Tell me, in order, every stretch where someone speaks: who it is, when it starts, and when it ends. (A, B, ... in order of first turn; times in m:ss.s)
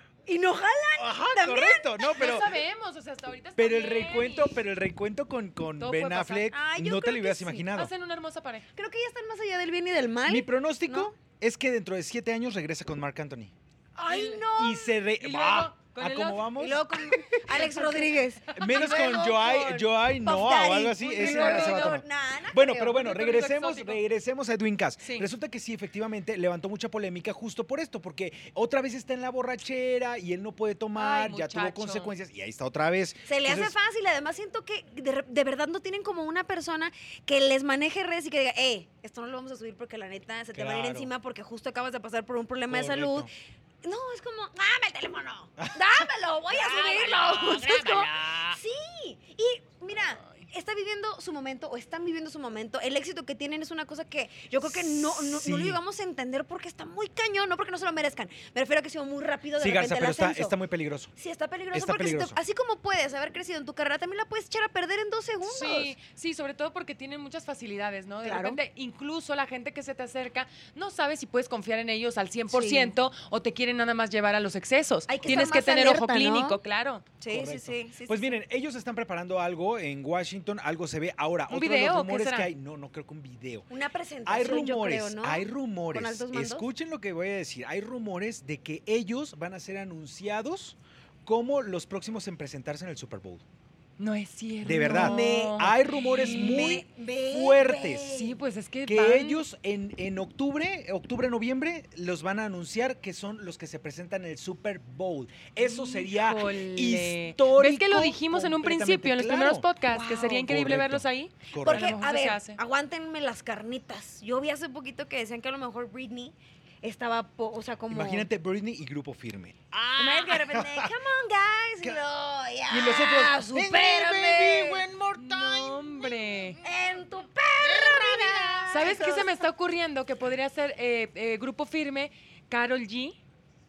0:00.3-0:02.3 A
0:01.0-0:02.6 B
0:02.1-0:04.6 C
0:03.6-0:07.9 B
0:05.8-0:06.5 C
0:06.5-0:07.7 A
0:07.7-0:08.6 C
0:08.8-0:11.1 A
0:10.3-0:13.5 B
0:14.0-0:14.9 A
0:14.1-0:14.5 C
0:14.6-0:16.8 B
0:15.2-0:16.5 C
0:16.6-0:23.0 A
0:17.6-0:18.9 C
0:18.6-0:33.8 B
0:21.1-0:22.0 C
0:22.9-0:24.0 C
0:25.0-0:25.3 C
0:31.0-0:32.1 C
0:33.3-0:43.3 A
0:40.5-0:41.1 B
0:42.7-0:43.3 B
0:43.8-1:00.6 A
0:45.6-0:48.6 B
0:54.6-0:55.8 B
0:59.6-1:01.1 B
1:01.2-1:06.0 A
1:01.7-1:02.4 B
1:05.4-1:17.0 C
1:08.2-1:08.6 A
1:12.5-1:12.9 A
1:15.1-1:16.6 A
1:17.2-1:18.4 A
1:17.3-1:23.7 B
1:21.5-1:22.5 C
1:23.7-1:26.7 A
1:24.3-1:33.4 B
1:34.0-1:36.7 C
1:34.6-1:38.2 B
1:34.8-1:38.4 A
1:38.1-1:39.4 C
1:38.9-1:49.7 B
1:45.6-1:52.6 C
1:49.9-1:50.5 A
1:50.4-1:52.0 B
1:51.6-1:58.3 A
1:57.9-2:00.9 B
2:00.0-2:04.8 A
2:02.7-2:06.2 B
2:05.2-2:06.6 C
2:06.6-2:09.4 A
2:07.6-2:09.2 B
2:08.7-2:13.2 C